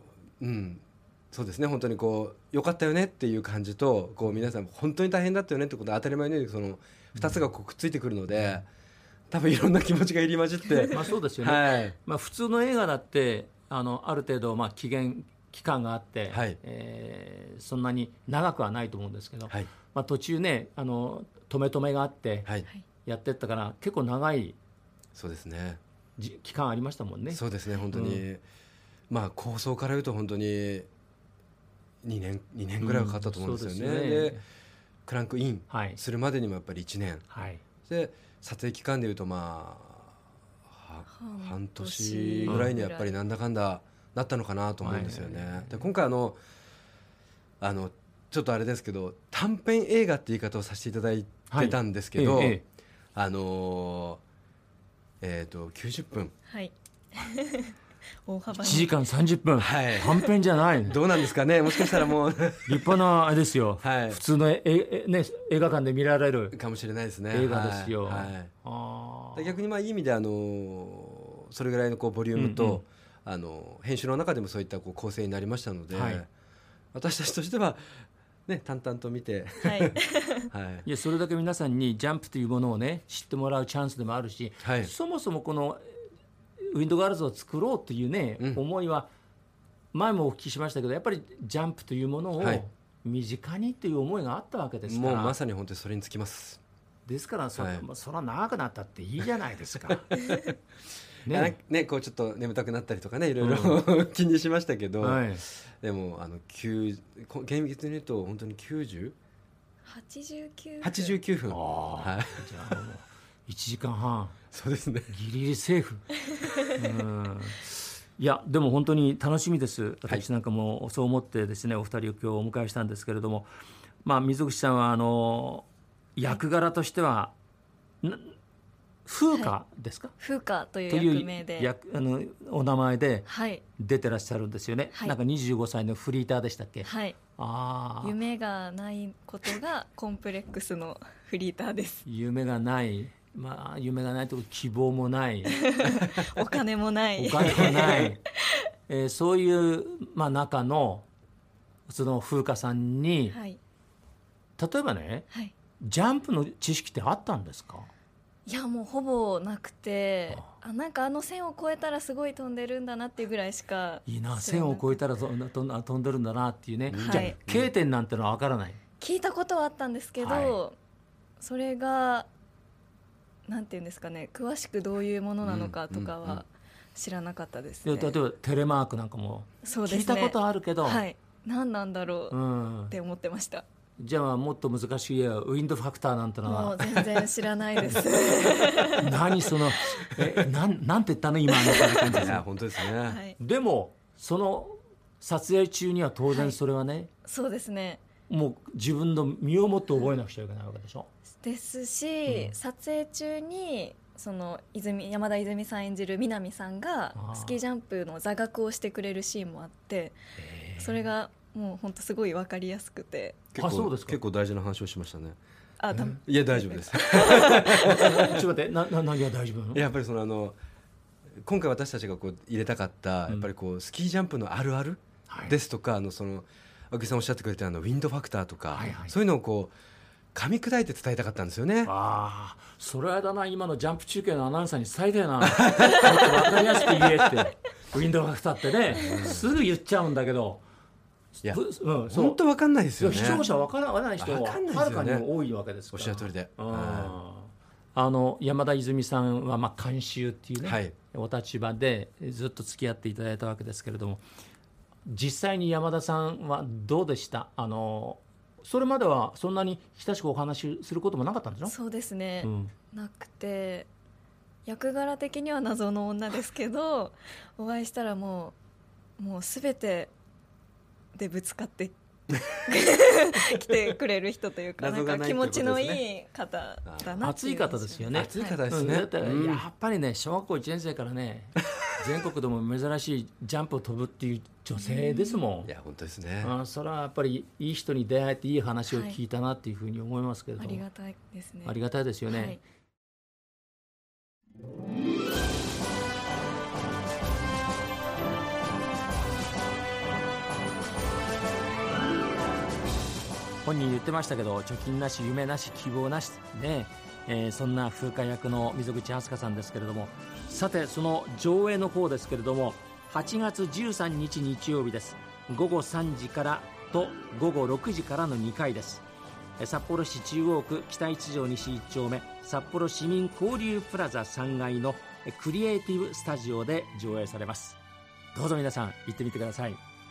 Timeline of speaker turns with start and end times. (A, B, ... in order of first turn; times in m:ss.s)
0:00.4-0:08.7 A
0:07.2-0:07.4 B
0:08.3-0:08.6 B
0:09.3-0:12.0 A
0:10.9-0:22.5 B
0:16.3-0:16.6 A
0:23.0-0:24.6 B
0:25.2-0:25.8 A
0:26.2-0:28.2 B
0:27.3-0:28.4 A
0:29.1-0:30.9 A
0:32.0-0:34.4 A
0:32.8-0:34.4 B
0:35.1-0:37.3 A
0:35.7-0:36.0 B
0:37.3-0:37.6 B
0:37.9-0:40.1 A
0:40.7-0:46.4 A
0:41.1-0:43.1 C
0:42.5-0:42.7 B
0:44.8-0:45.8 B
0:47.6-0:52.6 A
0:51.5-0:52.6 B
0:53.2-0:54.2 A
0:55.2-0:56.3 A
0:56.5-0:58.9 C
0:58.5-1:01.0 B
0:59.6-1:00.1 A
1:00.9-1:03.0 A
1:01.7-1:02.1 C
1:02.7-1:06.6 B
1:03.8-1:04.2 A
1:06.5-1:08.5 A
1:07.3-1:09.5 B
1:09.4-1:16.3 A
1:12.4-1:12.8 B
1:15.9-1:16.2 B
1:16.9-1:20.0 A
1:19.6-1:20.5 C
1:20.5-1:20.9 A
1:20.9-1:25.8 B
1:24.6-1:24.9 A
1:26.6-1:29.1 B
1:29.9-1:35.4 B
1:34.9-1:36.6 A
1:37.1-1:40.2 B
1:37.6-1:37.8 A
1:41.2-1:41.6 B
1:41.3-1:49.2 A
1:43.4-1:43.8 B
1:45.0-1:45.4 B
1:49.8-1:51.2 C
1:50.8-1:52.5 A
1:51.5-1:54.4 B
1:54.5-1:55.1 A
1:55.1-1:56.1 B
1:56.8-2:03.5 B
2:04.0-2:07.3 B
2:08.0-2:08.4 B
2:09.1-2:10.1 B
2:10.2-2:11.7 C
2:10.9-2:18.2 B
2:13.3-2:13.6 C
2:16.8-2:17.2 C
2:18.0-2:22.0 C
2:22.1-2:25.6 B
2:25.5-2:28.2 C
2:27.2-2:28.2 B
2:28.9-2:31.1 B
2:31.9-2:33.4 B
2:33.3-2:33.6 C
2:34.6-2:35.3 B
2:35.8-2:37.9 B
2:38.5-2:45.0 C
2:44.1-2:48.8 B
2:46.9-2:47.7 A
2:47.0-2:47.4 C
2:49.0-2:50.8 C
2:50.2-2:50.6 B
2:51.4-2:52.3 C
2:53.5-2:58.2 C
2:55.4-2:56.4 A
2:57.8-3:01.0 B
2:59.6-3:02.4 C
3:02.3-3:03.0 B
3:02.9-3:03.6 C
3:04.0-3:07.3 B
3:06.5-3:09.1 C
3:09.0-3:12.4 B
3:11.6-3:12.0 C
3:12.1-3:13.2 A
3:12.9-3:13.4 C
3:13.4-3:17.1 B
3:16.3-3:16.6 C
3:17.2-3:18.0 C
3:18.3-3:21.1 B
3:21.4-3:30.2 C
3:22.3-3:22.5 B
3:27.2-3:27.6 B
3:30.4-3:31.0 B
3:30.8-3:33.4 C
3:33.5-3:35.4 A
3:33.6-3:34.2 B
3:35.8-3:38.1 C
3:35.9-3:36.2 B
3:36.2-3:38.4 A
3:37.7-3:39.8 B
3:39.7-3:40.6 A
3:41.4-3:49.8 A
3:45.3-3:45.6 B
3:48.7-3:49.2 B
3:50.3-3:51.9 A
3:51.8-4:00.6 B
3:55.4-3:56.4 A
3:58.9-3:59.4 A
4:01.4-4:02.4 B
4:01.4-4:03.4 A
4:03.0-4:14.2 B
4:04.2-4:05.3 A
4:05.9-4:07.2 A
4:10.6-4:10.9 A
4:15.1-4:21.8 B
4:21.7-4:23.9 C
4:22.4-4:22.7 B
4:24.7-4:28.6 C
4:29.2-4:30.1 C
4:31.2-4:38.6 C
4:34.8-4:36.0 A
4:36.8-4:37.2 A
4:37.2-4:45.7 B
4:38.1-4:39.6 A
4:44.8-4:45.4 C
4:45.7-4:46.5 A
4:46.4-4:50.8 B
4:48.9-4:49.2 C
4:50.6-4:52.6 C
4:51.7-4:52.6 B
5:03.6-5:19.0 B
5:19.6-5:27.8 B
5:28.3-5:29.8 B